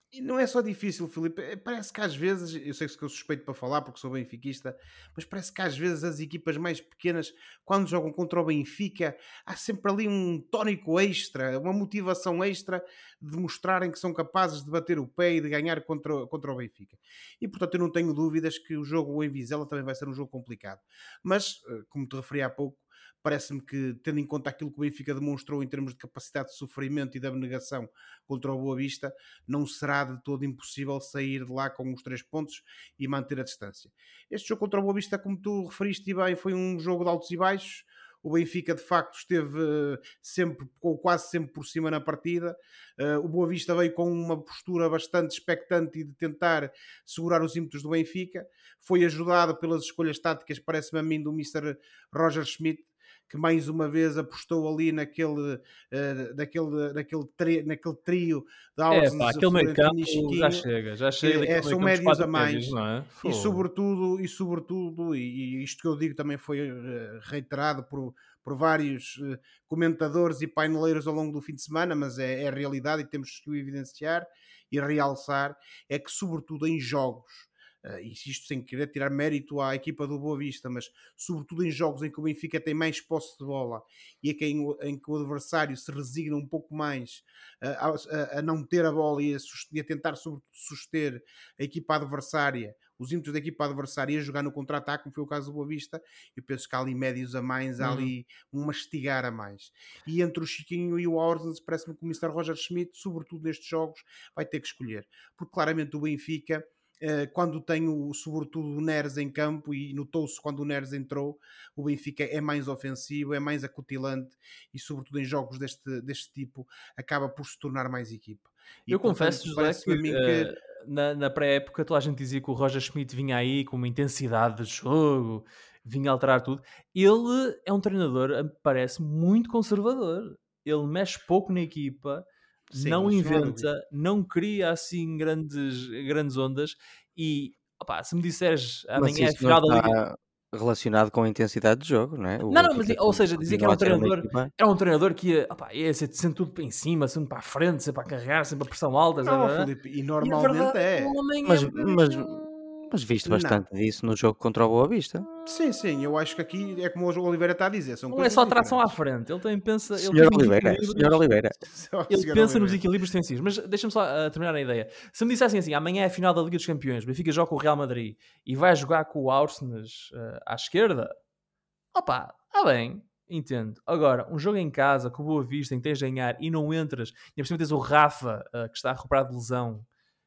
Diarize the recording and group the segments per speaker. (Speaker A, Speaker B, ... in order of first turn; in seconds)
Speaker A: 0.1-60.7, 61.2-120.5, 132.7-133.7, 149.2-151.2, 153.2-153.6, 155.4-158.9, 161.7-162.8
Speaker B: 58.9-63.7, 97.8-98.1, 118.9-140.0, 142.5-149.7, 150.2-152.4, 158.1-161.3, 162.1-171.2, 171.9-179.9
Speaker C: 139.0-144.5, 151.4-155.3, 160.0-161.6